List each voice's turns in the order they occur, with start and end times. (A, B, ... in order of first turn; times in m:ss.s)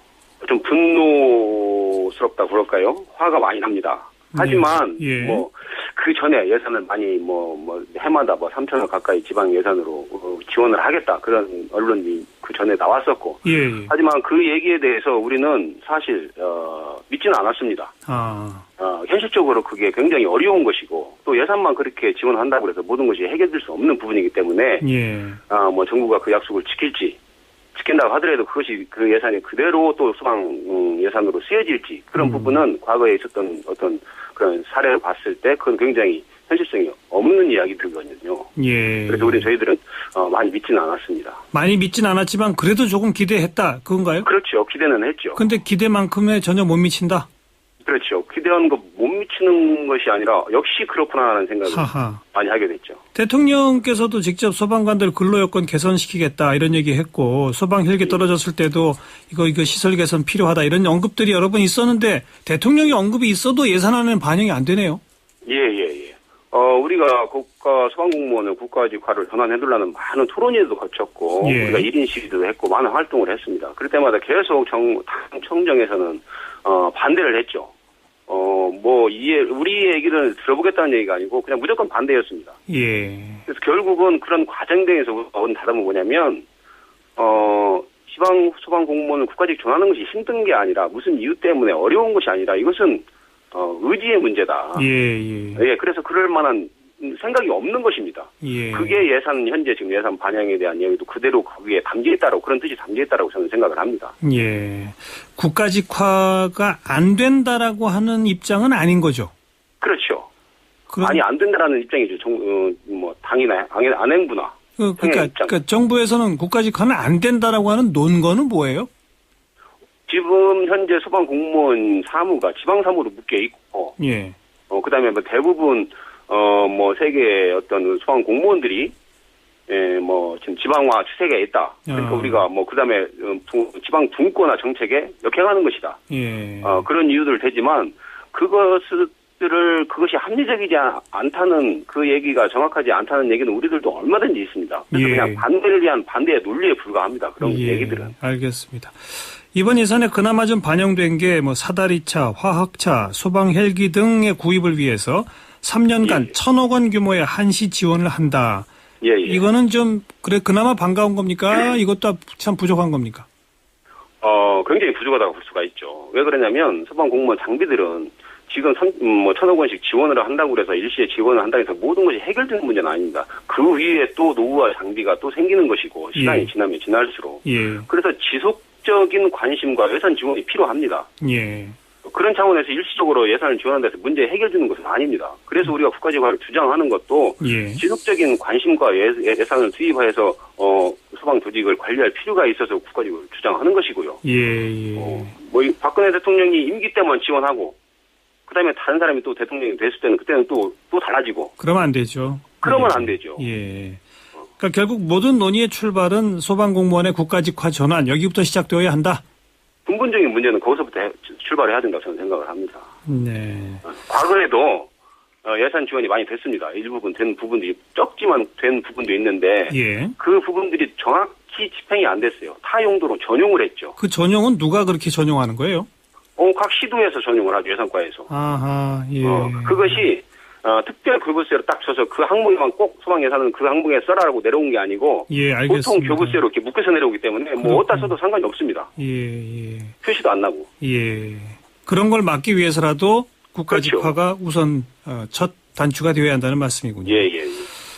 0:00.4-0:17.9 A
0:04.3-0:05.4 B
0:13.4-0:13.9 B
0:18.1-0:18.6 B
0:18.8-0:24.8 A
0:24.8-0:25.4 B
0:25.5-0:27.2 A
0:27.7-0:38.5 A
0:32.2-0:32.6 B
0:38.6-0:39.5 B
0:39.1-0:41.4 A
0:41.5-0:44.3 B
0:44.2-0:45.4 A
0:45.4-0:47.3 B
0:47.8-0:53.0 A
0:51.7-0:52.2 B
0:53.1-1:05.0 B
1:05.4-1:17.7 A
1:11.4-1:11.9 B
1:18.3-1:22.6 A
1:22.7-1:23.4 B
1:23.5-1:26.4 A
1:27.2-1:34.9 A
1:34.8-1:35.6 B
1:35.6-1:44.1 A
1:38.4-1:39.0 B
1:44.2-1:49.3 B
1:49.8-1:50.3 A
1:50.9-1:51.2 B
1:51.0-1:55.5 A
1:54.8-1:58.9 B
2:00.1-2:04.0 A
2:04.0-2:04.4 B
2:04.7-2:08.9 A
2:09.7-2:16.0 A
2:11.9-2:12.4 B
2:16.1-2:16.8 B
2:16.6-2:28.1 A
2:24.9-2:25.4 B
2:27.4-2:38.7 B
2:36.0-2:36.3 A
2:39.0-2:39.4 A
2:39.2-2:43.3 B
2:44.2-3:01.1 A
2:56.1-2:56.5 B
2:57.4-2:57.8 B
3:01.2-3:01.8 B
3:02.0-3:14.2 A
3:07.4-3:07.8 B
3:14.2-3:15.3 B
3:15.0-3:17.8 A
3:18.5-3:21.5 A
3:21.6-3:24.0 B
3:22.6-3:23.4 A
3:24.6-3:29.2 B
3:29.8-3:32.9 A
3:33.1-3:33.8 B
3:33.8-3:34.9 A
3:35.4-3:44.0 A
3:39.7-3:40.1 B
3:44.0-3:45.9 B
3:46.4-3:48.3 A
3:48.3-3:50.0 B
3:49.2-3:58.9 A
3:55.3-3:56.4 B
3:57.6-3:58.1 B
3:59.0-3:59.9 B
4:00.0-4:00.7 A
4:00.8-4:07.2 B
4:03.7-4:04.1 A
4:07.0-4:07.7 A